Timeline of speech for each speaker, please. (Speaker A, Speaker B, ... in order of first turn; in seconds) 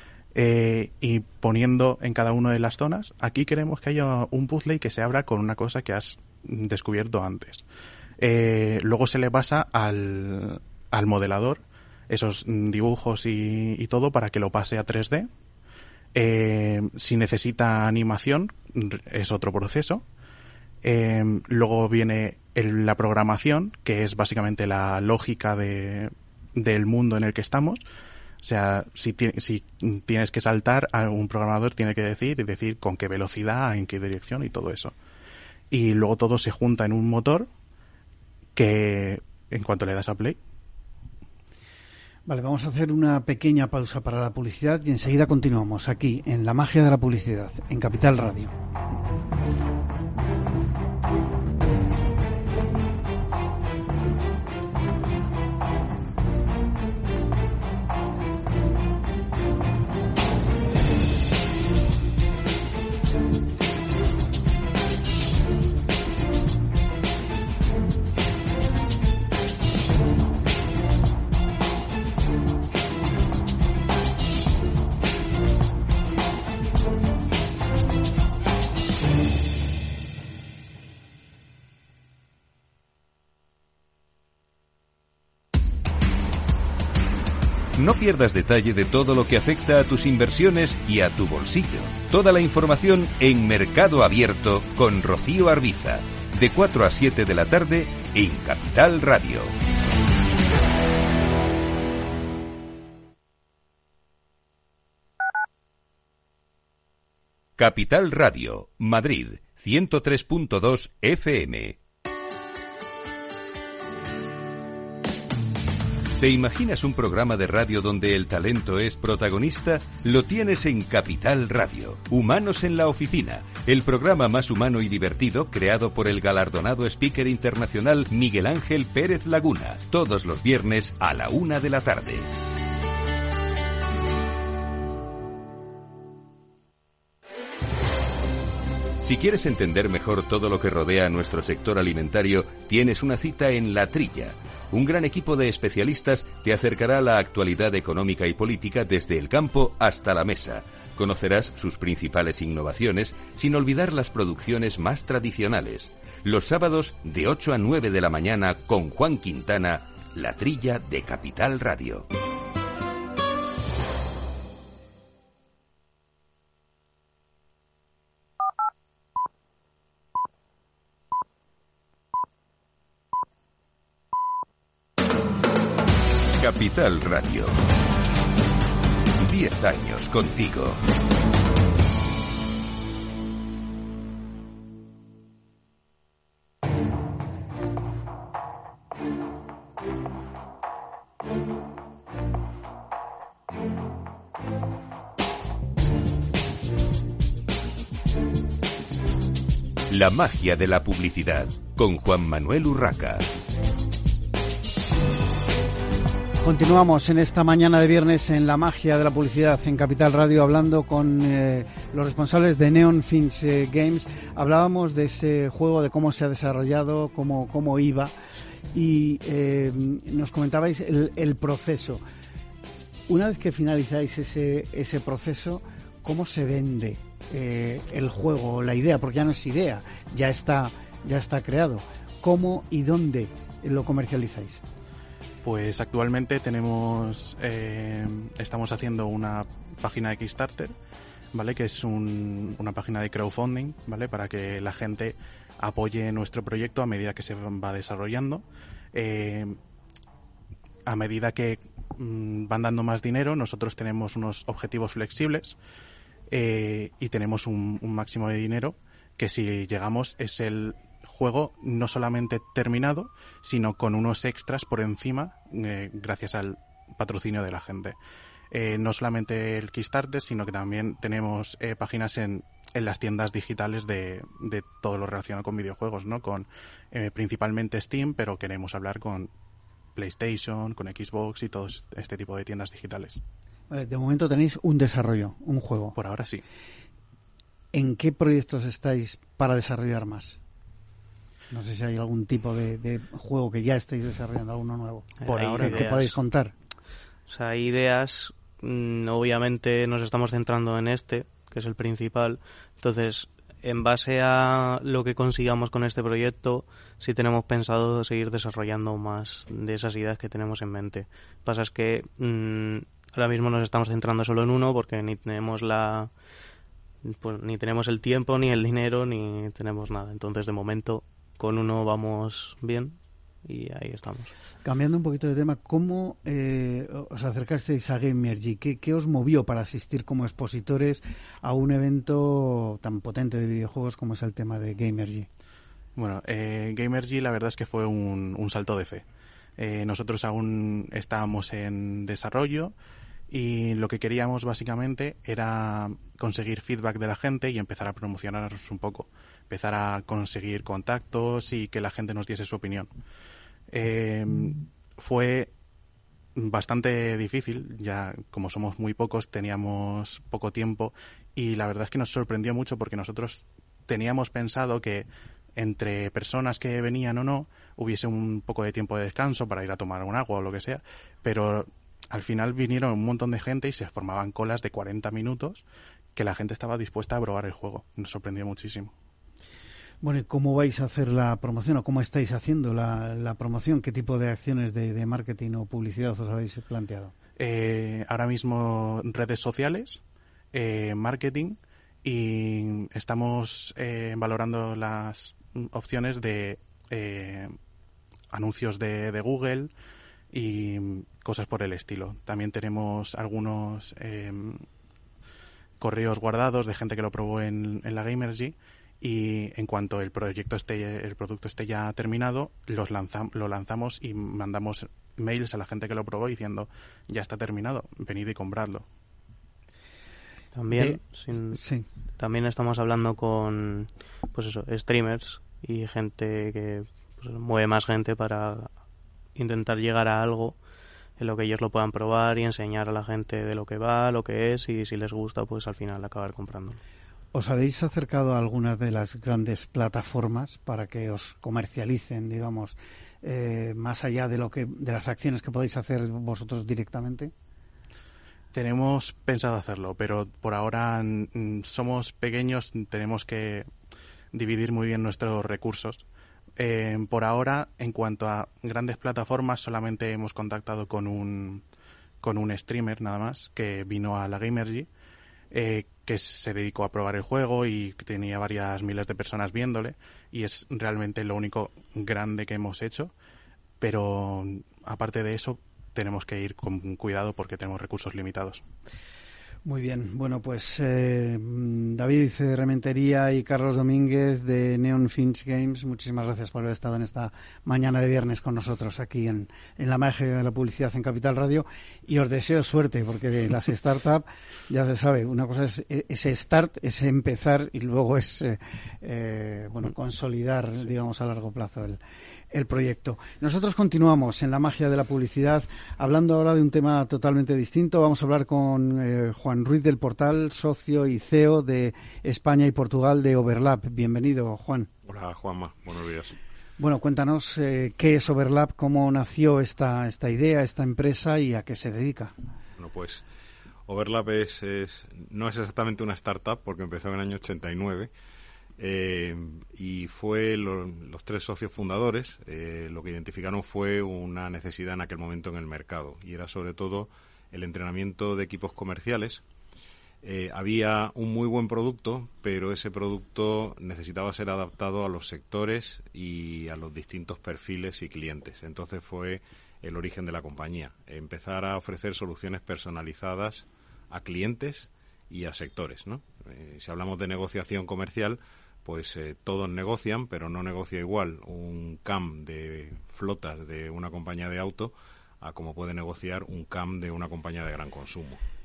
Speaker A: 0.3-7.6, 8.2-15.3, 16.1-20.0, 20.8-27.8, 28.4-34.9, 35.7-37.5, 38.5-40.4, 235.4-240.7, 241.3-249.6, 250.8-255.6, 256.3-268.0, 268.5-279.3, 279.9-283.2, 285.9-286.4, 295.2-296.1, 335.9-339.1, 339.6-342.7, 343.3-352.9, 353.7-355.5, 356.3-375.6, 376.1-378.9, 387.4-390.0, 390.5-397.5, 398.3-399.7, 400.3-404.6, 405.8-418.8, 448.5-453.7, 454.3-456.0, 456.6-461.6, 462.2-464.9, 465.5-473.1, 473.8-478.6
Speaker B: 42.2-48.5, 206.4-218.1, 218.7-222.0, 223.1-234.6, 283.7-286.0, 287.7-290.4, 291.5-296.5, 324.6-335.3, 380.0-387.1, 420.7-421.9, 437.3-447.3, 479.6-502.0, 502.5-514.9, 516.8-522.3
Speaker C: 87.8-99.5, 107.6-111.8, 116.2-132.3, 139.0-162.1, 176.4-177.6, 179.2-180.8, 199.9-203.3
Speaker D: 295.2-296.1, 297.3-316.1, 317.0-324.3, 420.5-421.6, 422.2-428.7, 429.3-430.6, 431.2-436.8
Speaker E: 515.0-516.4, 522.8-523.2, 523.9-528.1, 528.8-539.4, 540.2-568.4